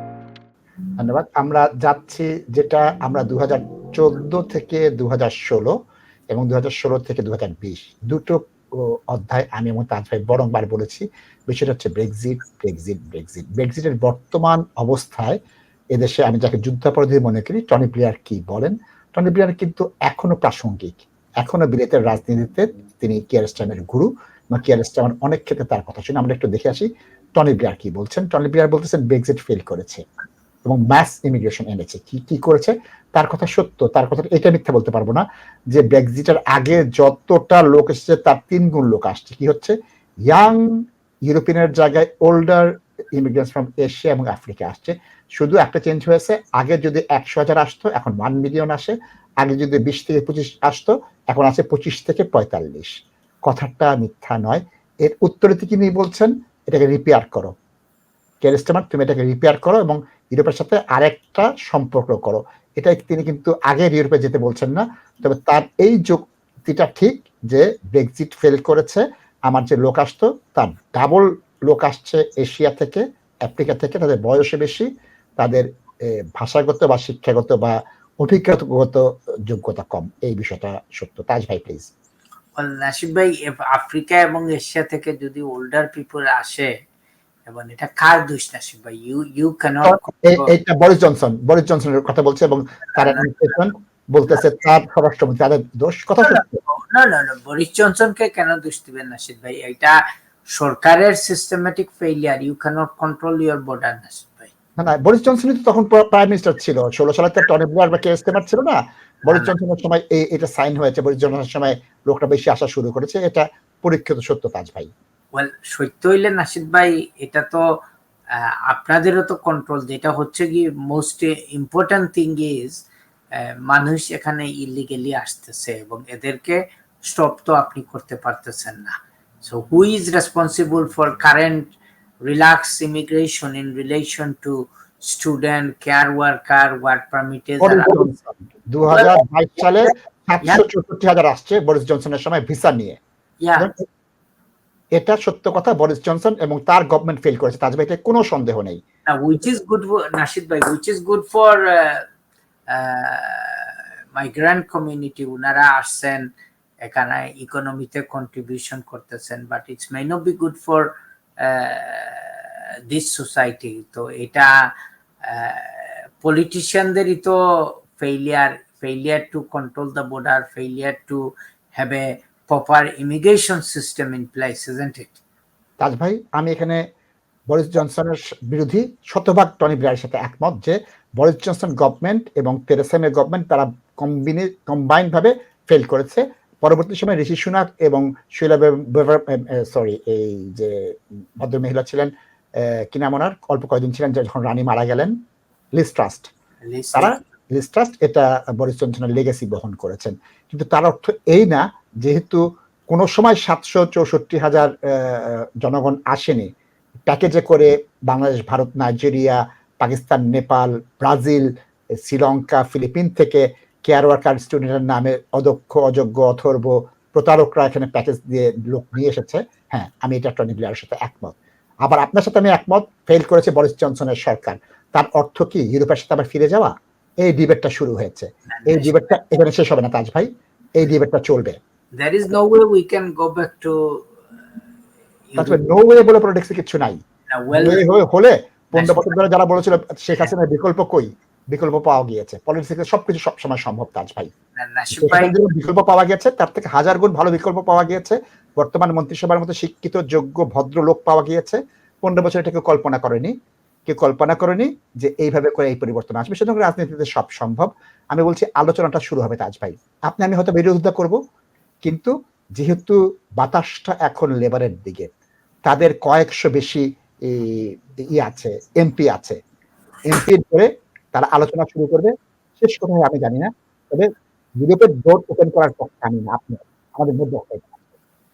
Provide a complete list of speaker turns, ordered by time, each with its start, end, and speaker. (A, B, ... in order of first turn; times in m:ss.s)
0:01.0-0:05.7 A
0:06.3-0:15.4 A
0:15.9-0:30.0 A
0:30.7-0:39.8 A
0:40.3-0:40.6 A
0:41.3-0:52.9 A
0:53.5-0:57.5 A
0:58.4-1:14.9 A
1:15.4-1:21.9 A
1:22.6-1:26.7 B
1:27.5-1:30.5 B
1:29.8-1:36.6 A
1:33.0-1:33.6 B
1:36.2-1:40.0 B
1:40.5-1:44.5 B
1:44.8-1:54.9 A
1:49.3-1:49.5 B
1:55.3-1:57.6 B
1:58.4-2:02.8 B
2:03.4-2:18.1 B
2:17.6-2:23.0 A
2:23.4-2:23.7 B
2:25.0-2:28.8 A
2:29.1-2:32.0 B
2:32.7-2:36.3 B
2:36.8-2:44.7 B
2:45.2-2:55.2 B
2:55.8-2:56.8 A
2:57.5-3:15.1 A
3:15.8-3:16.3 A
3:16.6-3:17.3 B
3:16.9-3:26.5 A
3:27.1-3:31.5 A
3:32.0-3:51.6 A
3:48.5-3:49.2 B
3:51.9-3:54.2 B
3:55.3-3:55.6 B
3:55.4-3:57.0 A
3:57.3-3:57.8 B
3:57.5-4:04.3 A
3:58.8-3:59.2 B
4:04.6-4:05.4 B
4:04.9-4:13.3 A
4:13.9-4:21.2 A
4:21.8-4:25.1 A
4:25.7-4:29.4 A
4:30.1-4:37.8 A